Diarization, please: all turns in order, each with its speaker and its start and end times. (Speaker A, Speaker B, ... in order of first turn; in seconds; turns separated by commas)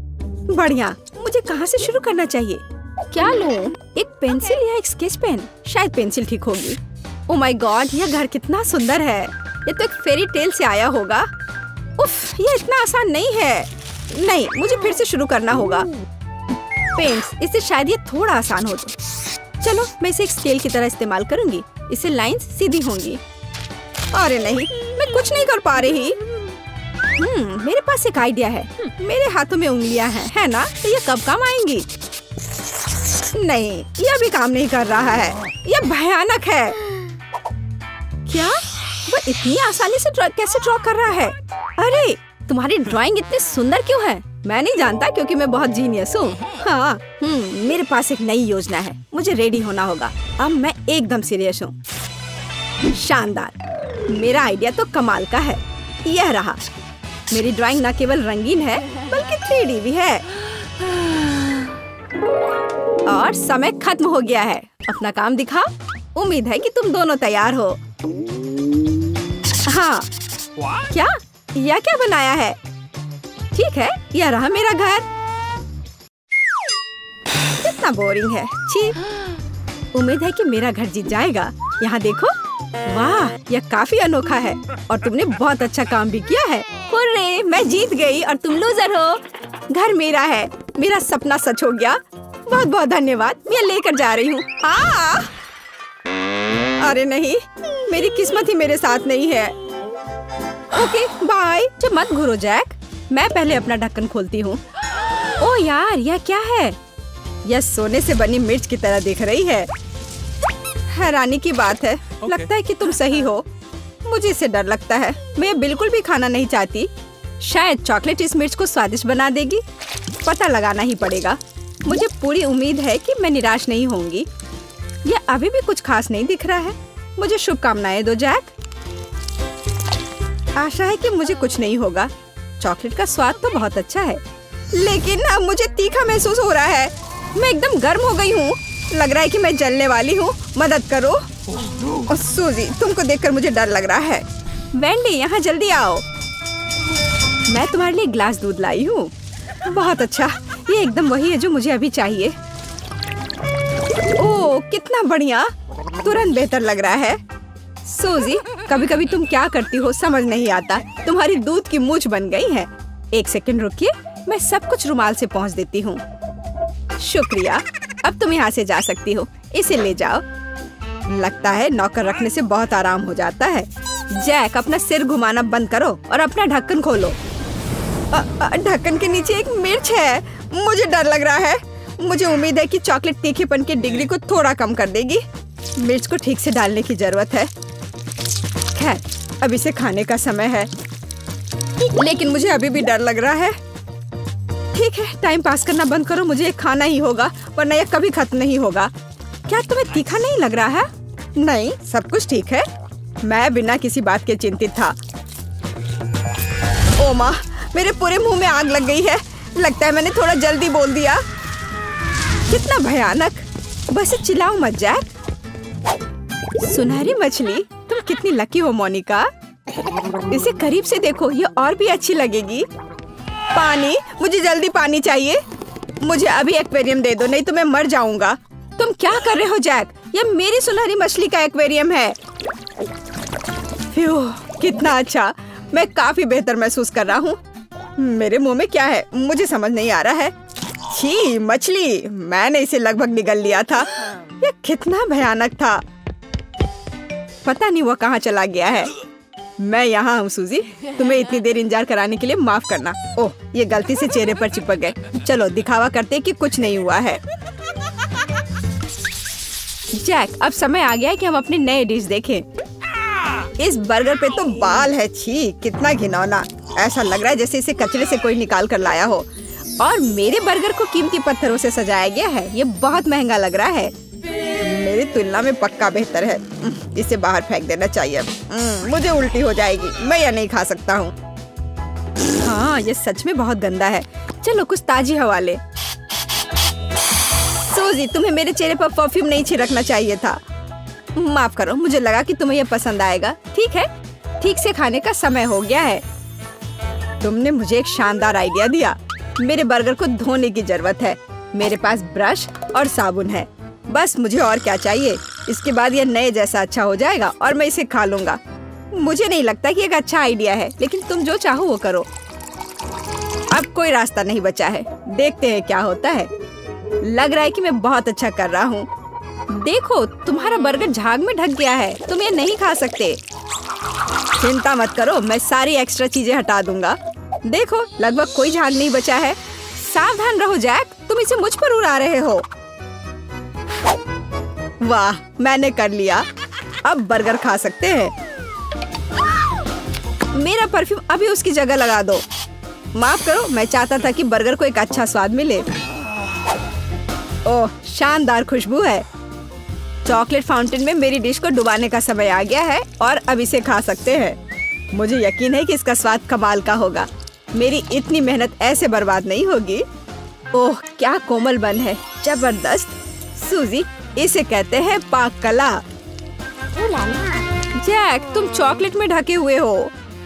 Speaker A: 0.5-11.3, Speaker A: 12.0-15.9, Speaker A: 16.9-18.9, Speaker A: 19.6-23.2, Speaker A: 24.1-26.2, Speaker A: 27.2-31.9, Speaker A: 33.3-36.8, Speaker A: 38.3-51.7, Speaker A: 52.9-53.6, Speaker A: 54.1-56.6, Speaker A: 57.3-60.3, Speaker A: 63.0-67.8, Speaker A: 69.7-70.1, Speaker A: 70.7-72.6, Speaker A: 73.5-75.1, Speaker A: 77.6-79.0, Speaker A: 79.9-82.3, Speaker A: 82.9-95.3, Speaker A: 96.8-99.5, Speaker A: 100.7-104.6, Speaker A: 105.4-106.8, Speaker A: 107.4-109.7, Speaker A: 110.9-113.5, Speaker A: 114.0-119.6, Speaker A: 120.2-124.3, Speaker A: 125.0-128.5, Speaker A: 130.6-141.3, Speaker A: 141.8-146.0, Speaker A: 147.5-149.1, Speaker A: 149.6-152.3, Speaker A: 154.2-157.2, Speaker A: 157.8-166.0, Speaker A: 167.0-170.2, Speaker A: 171.1-177.2, Speaker A: 178.1-185.2, Speaker A: 185.8-187.5, Speaker A: 188.7-190.7, Speaker A: 191.9-193.6, Speaker A: 194.7-198.9, Speaker A: 199.5-202.6, Speaker A: 203.2-205.0, Speaker A: 207.0-211.2, Speaker A: 212.5-215.1, Speaker A: 216.6-219.3, Speaker A: 220.3-222.7, Speaker A: 223.5-225.4, Speaker A: 226.0-232.2, Speaker A: 233.9-237.4, Speaker A: 238.0-240.3, Speaker A: 240.9-245.8, Speaker A: 247.4-248.9, Speaker A: 249.6-257.2, Speaker A: 259.9-262.5, Speaker A: 263.6-273.9, Speaker A: 274.6-281.1, Speaker A: 282.2-285.6, Speaker A: 287.6-290.4, Speaker A: 291.1-296.0, Speaker A: 297.2-308.4, Speaker A: 308.9-312.1, Speaker A: 313.5-316.3, Speaker A: 317.0-318.9, Speaker A: 319.5-323.2, Speaker A: 324.4-332.4, Speaker A: 334.8-336.2, Speaker A: 336.8-338.1, Speaker A: 340.3-342.2, Speaker A: 342.9-345.7, Speaker A: 347.4-349.0, Speaker A: 350.0-354.4, Speaker A: 354.9-359.8, Speaker A: 360.5-365.8, Speaker A: 367.7-369.9